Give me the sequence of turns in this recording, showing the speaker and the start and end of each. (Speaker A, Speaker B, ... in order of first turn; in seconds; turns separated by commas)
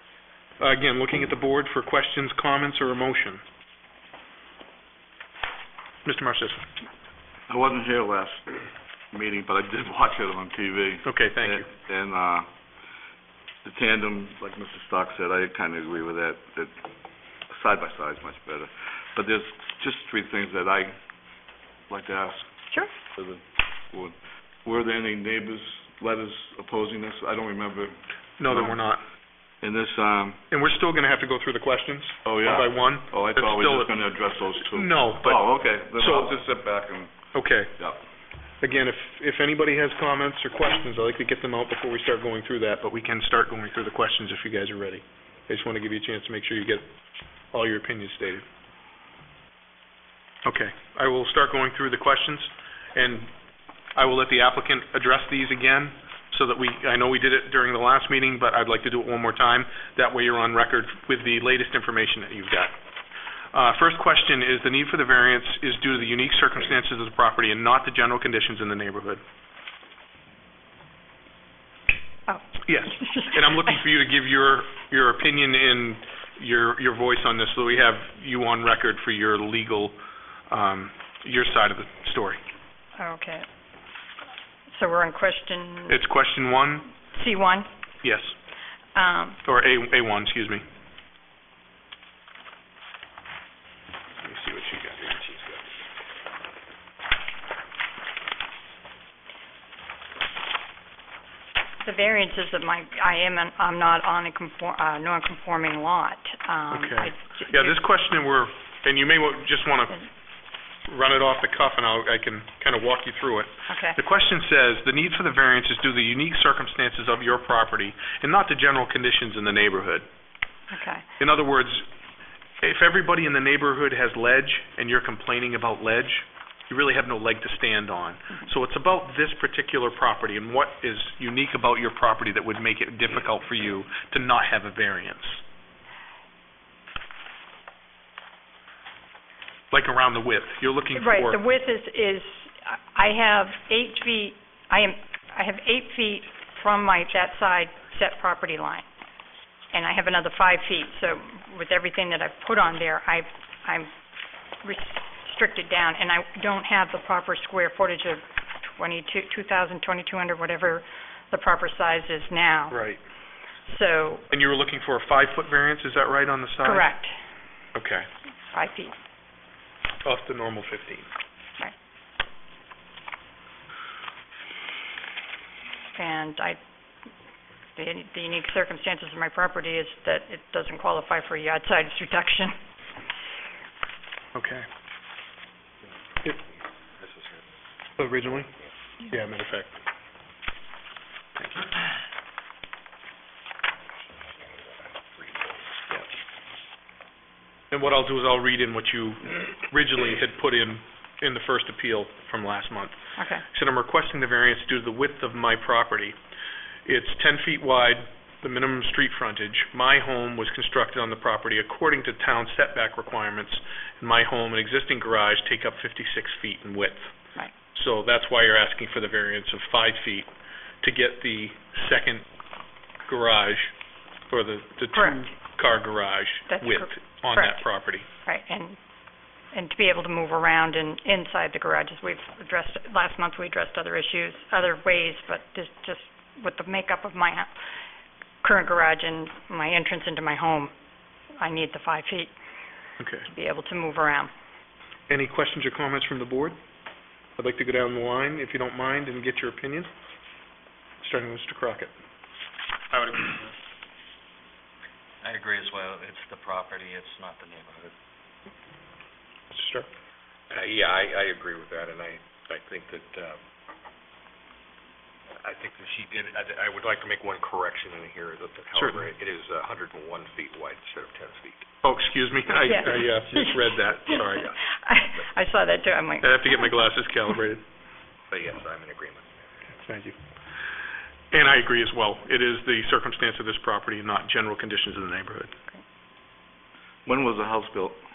Speaker A: 0.6-3.4, Speaker A: 6.0-6.7, Speaker B: 7.5-12.5, Speaker A: 11.0-11.7, Speaker B: 13.6-16.7, Speaker B: 17.5-21.0, Speaker B: 21.9-22.5, Speaker B: 23.1-28.8, Speaker A: 28.4-29.0, Speaker B: 29.6-30.4, Speaker A: 30.5-34.0, Speaker B: 32.2-37.1, Speaker A: 34.6-35.4, Speaker A: 36.0-36.3, Speaker A: 37.3-37.7, Speaker A: 38.6-46.8, Speaker A: 47.5-48.4, Speaker A: 50.4-53.3, Speaker A: 53.9-62.7, Speaker A: 63.5-69.2, Speaker C: 72.3-73.6, Speaker A: 72.6-80.0, Speaker A: 80.5-82.4, Speaker C: 83.0-83.5, Speaker C: 84.7-86.0, Speaker A: 85.9-86.9, Speaker C: 87.1-87.7, Speaker A: 88.0-88.3, Speaker C: 88.9-89.4, Speaker A: 89.4-90.6, Speaker A: 94.2-95.6, Speaker C: 101.8-107.8, Speaker A: 106.7-110.0, Speaker A: 110.9-120.0, Speaker C: 113.7-114.0, Speaker C: 120.7-121.0, Speaker A: 121.2-121.9, Speaker A: 122.6-135.4, Speaker A: 139.7-141.4, Speaker C: 140.9-148.8, Speaker C: 149.7-153.9, Speaker C: 154.6-162.8, Speaker A: 162.7-163.0, Speaker C: 163.7-164.2, Speaker A: 164.3-166.9, Speaker C: 166.6-167.1, Speaker A: 167.7-168.1, Speaker C: 168.5-168.9, Speaker A: 170.0-171.1, Speaker C: 175.9-176.6, Speaker C: 177.8-182.6, Speaker A: 184.3-184.7, Speaker A: 188.0-188.5, Speaker A: 189.1-189.7, Speaker D: 195.2-195.5, Speaker A: 197.7-203.0, Speaker C: 203.2-203.4, Speaker A: 203.5-206.2, Speaker A: 206.8-217.1, Speaker A: 217.7-220.3, Speaker A: 220.8-222.2, Speaker A: 223.0-223.7, Speaker A: 224.3-228.1, Speaker C: 224.9-225.3, Speaker C: 226.5-227.7, Speaker C: 228.2-228.8, Speaker C: 229.5-237.5, Speaker C: 238.4-240.7, Speaker C: 241.4-242.3, Speaker A: 243.0-243.3, Speaker C: 243.3-244.3, Speaker A: 245.1-246.6, Speaker A: 247.4-249.9, Speaker A: 251.0-251.9, Speaker E: 255.2-257.9, Speaker A: 259.5-259.9, Speaker D: 260.5-263.4, Speaker D: 265.4-271.6, Speaker A: 268.7-269.1, Speaker A: 271.8-274.5, Speaker C: 272.6-276.9, Speaker A: 276.2-277.6, Speaker D: 278.3-279.3, Speaker A: 279.8-280.2, Speaker A: 281.3-285.5, Speaker B: 287.1-288.0